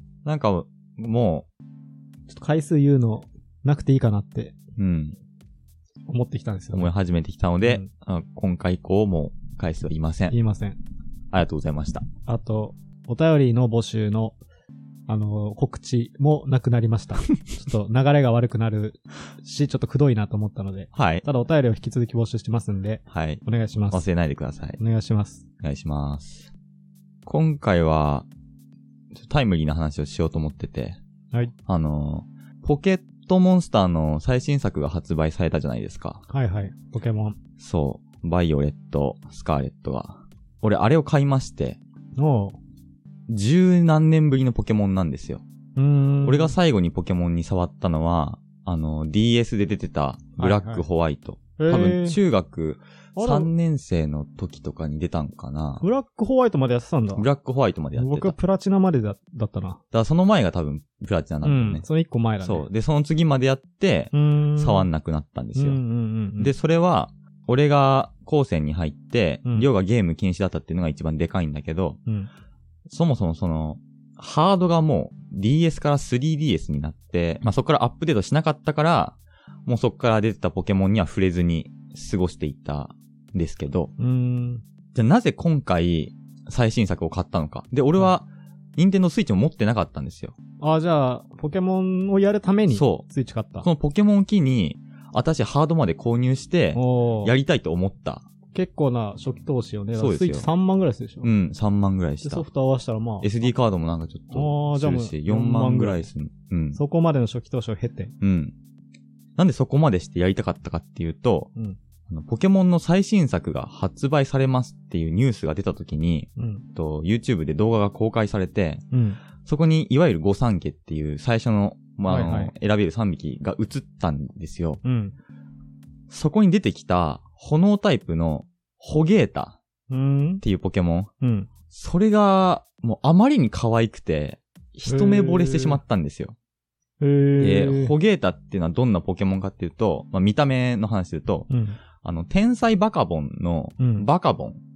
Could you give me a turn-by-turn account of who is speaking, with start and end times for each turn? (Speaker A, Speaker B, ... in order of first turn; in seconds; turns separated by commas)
Speaker A: 0.2-1.5, Speaker B: 2.3-4.6, Speaker A: 4.8-5.2, Speaker B: 6.1-6.9, Speaker A: 6.7-10.4, Speaker B: 7.6-7.9, Speaker B: 10.3-10.8, Speaker A: 11.3-12.1, Speaker B: 12.3-14.4, Speaker B: 15.1-24.1, Speaker A: 20.9-21.2, Speaker A: 23.1-24.8, Speaker B: 24.8-25.4, Speaker A: 25.6-26.5, Speaker A: 27.3-28.3, Speaker A: 29.1-31.0, Speaker A: 31.7-36.2, Speaker B: 36.3-37.4, Speaker A: 37.6-41.8, Speaker B: 42.2-42.6, Speaker A: 43.3-45.4, Speaker B: 45.8-46.6, Speaker A: 46.2-55.8, Speaker B: 50.4-50.9, Speaker B: 51.6-52.2, Speaker B: 53.2-53.5, Speaker B: 55.8-57.3, Speaker A: 57.2-58.4, Speaker B: 58.0-59.8, Speaker A: 59.9-61.9, Speaker B: 61.4-62.7, Speaker A: 62.4-65.8, Speaker B: 64.1-64.9, Speaker B: 65.6-66.5, Speaker A: 66.4-72.0, Speaker A: 72.9-83.9, Speaker B: 84.0-84.6, Speaker A: 85.0-90.3, Speaker B: 90.6-93.7, Speaker A: 92.7-93.1, Speaker A: 93.6-98.2, Speaker B: 96.7-97.3, Speaker B: 98.5-101.3, Speaker A: 100.0-100.5, Speaker A: 101.2-102.5, Speaker B: 102.2-103.5, Speaker A: 103.2-106.8, Speaker B: 104.3-106.1, Speaker B: 106.7-108.1, Speaker A: 108.2-108.5, Speaker A: 109.4-111.5, Speaker A: 112.1-118.8, Speaker B: 116.4-116.7, Speaker B: 118.9-119.2, Speaker A: 119.5-124.8, Speaker B: 122.1-122.5, Speaker B: 124.8-125.2, Speaker A: 126.1-129.6, Speaker B: 129.9-130.4, Speaker A: 130.4-131.1, Speaker B: 131.2-131.5, Speaker A: 131.7-136.3, Speaker B: 134.9-135.8, Speaker B: 137.0-137.9, Speaker A: 137.4-141.5, Speaker B: 141.5-141.8, Speaker A: 142.0-144.6, Speaker B: 143.8-144.1